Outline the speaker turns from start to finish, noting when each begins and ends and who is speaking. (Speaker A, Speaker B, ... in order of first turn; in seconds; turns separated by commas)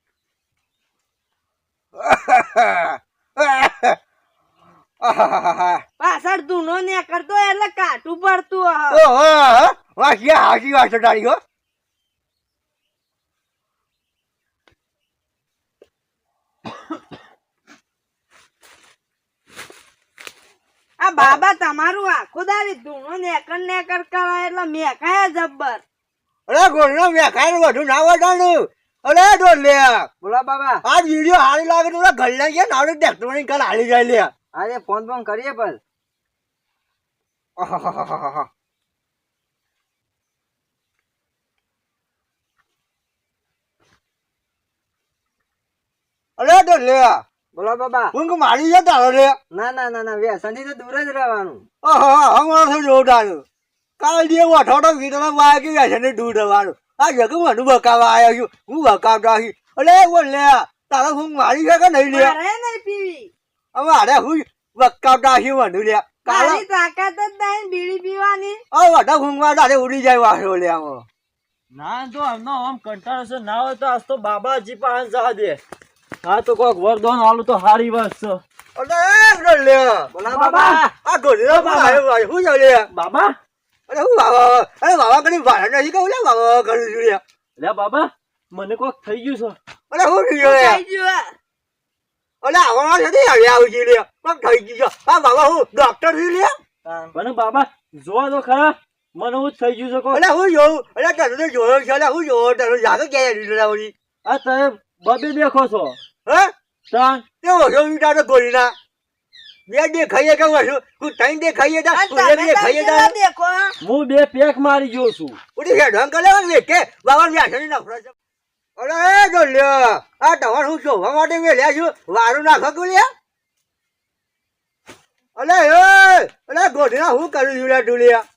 Speaker A: 1.9-4.0, Speaker A: 5.0-5.8, Speaker B: 6.0-9.0, Speaker A: 8.9-11.4, Speaker B: 21.0-25.8, Speaker A: 26.5-30.1, Speaker C: 30.2-30.8, Speaker A: 30.8-34.3, Speaker C: 34.6-35.8, Speaker A: 37.6-38.5, Speaker A: 46.4-47.2, Speaker C: 47.5-48.1, Speaker A: 48.1-49.4, Speaker C: 49.5-51.6, Speaker A: 51.8-53.4, Speaker A: 54.0-62.4, Speaker B: 62.1-63.3, Speaker A: 63.7-66.6, Speaker B: 66.2-68.6, Speaker A: 68.7-71.0, Speaker D: 71.7-75.6, Speaker D: 76.2-78.4, Speaker A: 78.8-80.1, Speaker C: 80.1-80.9, Speaker D: 80.2-80.9, Speaker A: 81.0-82.9, Speaker D: 81.5-82.0, Speaker D: 82.9-83.3, Speaker A: 83.9-87.2, Speaker D: 87.6-89.5, Speaker A: 89.9-90.8, Speaker B: 90.4-91.3, Speaker A: 92.4-96.5, Speaker C: 96.8-97.1, Speaker D: 97.1-100.2, Speaker A: 100.1-103.9, Speaker D: 104.2-106.0, Speaker A: 106.2-106.5, Speaker D: 106.9-107.2, Speaker A: 107.4-108.7, Speaker A: 109.7-113.1, Speaker B: 111.9-113.7, Speaker D: 113.8-115.4, Speaker A: 115.5-118.1, Speaker A: 118.8-123.1, Speaker A: 125.3-128.2